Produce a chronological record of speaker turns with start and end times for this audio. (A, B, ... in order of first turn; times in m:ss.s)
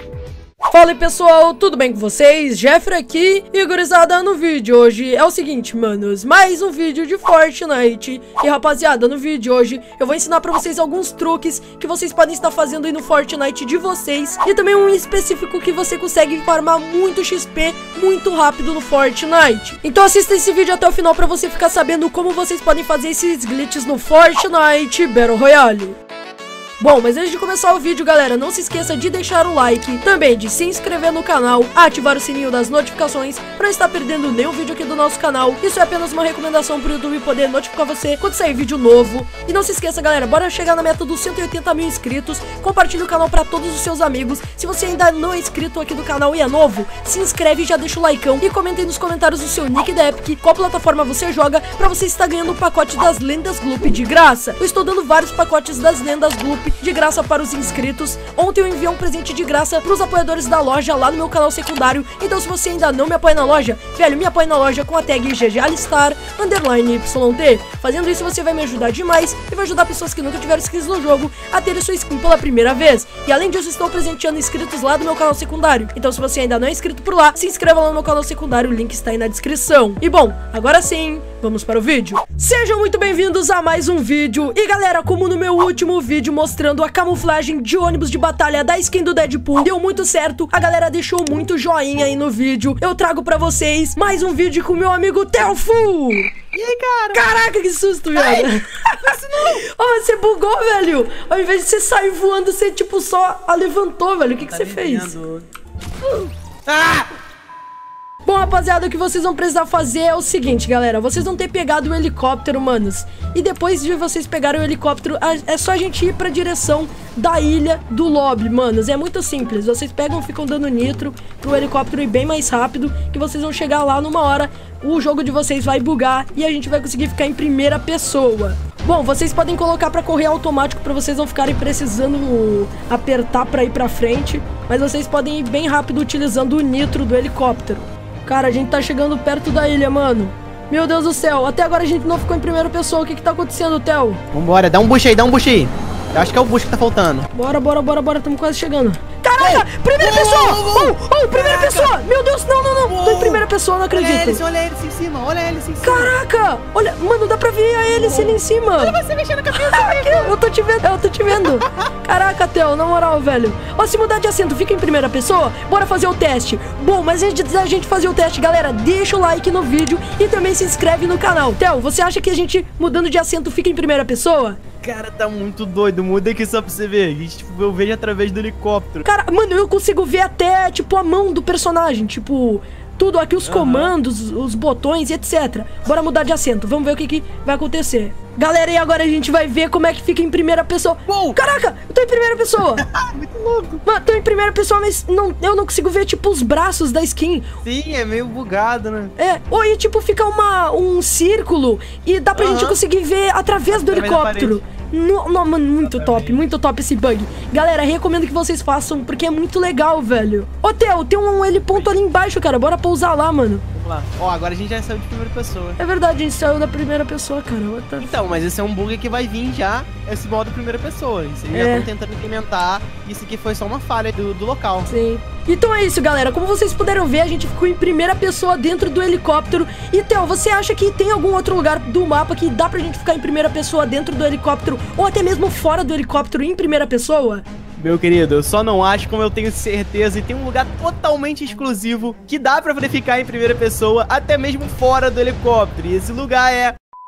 0:00.7-0:26.0 A
0:26.8-1:36.3 A
1:36.5-1:37.2 B
1:37.1-1:45.2 A
1:38.2-1:39.6 B
1:44.3-1:45.5 B
1:46.7-1:47.1 B
1:48.3-2:24.2 A
2:24.3-2:27.3 B
2:27.3-2:34.4 A
2:29.4-2:32.0 B
2:32.8-2:36.2 B
2:35.8-2:39.0 A
2:37.9-2:40.4 B
2:39.5-2:54.6 A
2:41.4-2:41.7 B
2:54.8-2:59.1 B
2:59.0-3:12.9 A
3:03.4-3:03.9 B
3:11.1-3:11.4 B
3:12.7-3:13.8 B
3:13.8-3:17.5 A
3:17.6-3:19.2 B
3:19.2-3:33.6 A
3:22.3-3:22.8 B
3:23.7-3:24.6 B
3:25.8-3:26.4 B
3:33.7-3:35.8 B
3:35.8-3:38.1 A
3:38.0-3:44.9 B
3:41.5-3:41.9 A
3:44.9-3:57.4 A
3:57.8-4:06.8 B